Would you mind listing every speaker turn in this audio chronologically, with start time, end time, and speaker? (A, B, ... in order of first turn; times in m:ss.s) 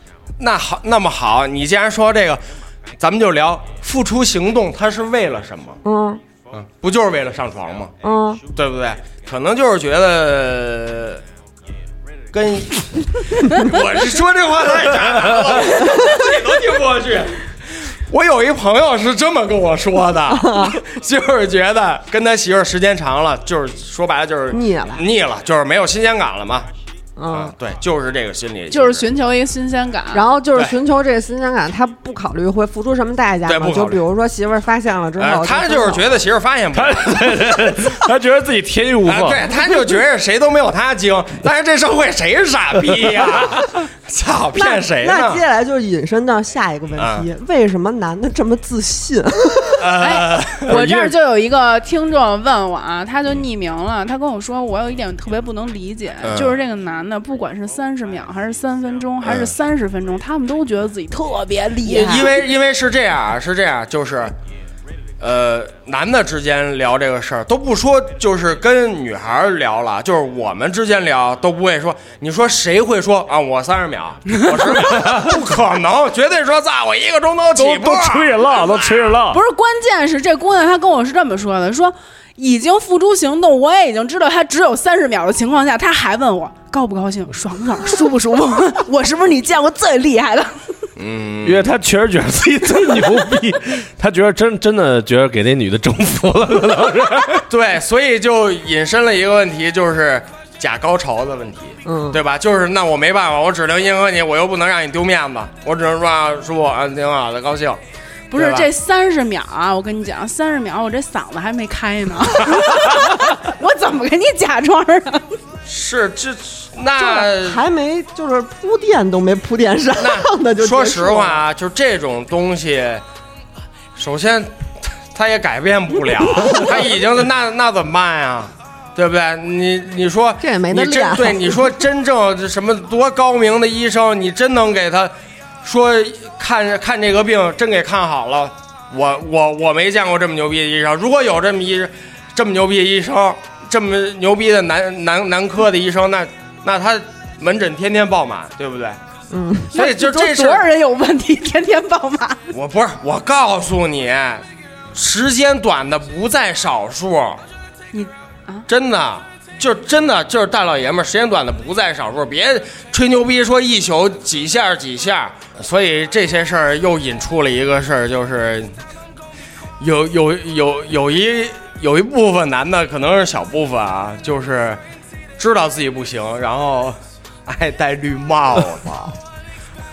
0:00.4-0:02.4 A
0:03.0-0:05.8 A
0:05.8-0:06.2 B
0:06.5-0:07.9 A
0:08.0-0:08.4 B
0:08.5-0:11.2 A
0:12.3-0:17.4 A
0:18.1-0:26.7 A
0:20.3-0:20.8 B
0:24.5-0:25.0 B
0:27.2-0:27.5 B
0:27.3-0:29.1 A
0:28.7-0:30.2 C
0:30.1-0:36.2 B
0:33.5-0:34.0 A
0:35.2-0:37.7 A
0:36.7-0:39.5 D
0:39.0-0:45.4 A
0:44.5-0:49.9 B
0:47.0-0:47.3 A
0:49.8-0:50.8 A
0:50.0-1:02.4 C
0:50.7-0:51.1 D
0:56.2-0:56.6 A
0:59.2-0:59.5 A
1:01.8-1:04.3 A
1:05.2-1:19.2 A
1:17.6-1:19.4 D
1:19.3-1:30.7 C
1:31.0-1:31.7 A
1:31.4-1:37.4 D
1:37.5-1:47.8 A
1:41.8-1:42.2 B
1:48.3-1:55.4 C
1:48.4-1:48.7 A
1:55.7-1:57.6 A
1:57.0-2:01.4 B
2:00.0-2:03.0 A
2:04.0-2:15.1 A
2:10.4-2:11.8 B
2:15.6-2:29.0 A
2:29.3-2:29.7 B
2:29.7-2:32.4 C
2:29.8-2:30.6 A
2:32.5-2:37.4 A
2:37.9-2:38.7 C
2:38.7-2:48.8 A
2:49.8-2:54.8 A
2:55.4-2:59.2 A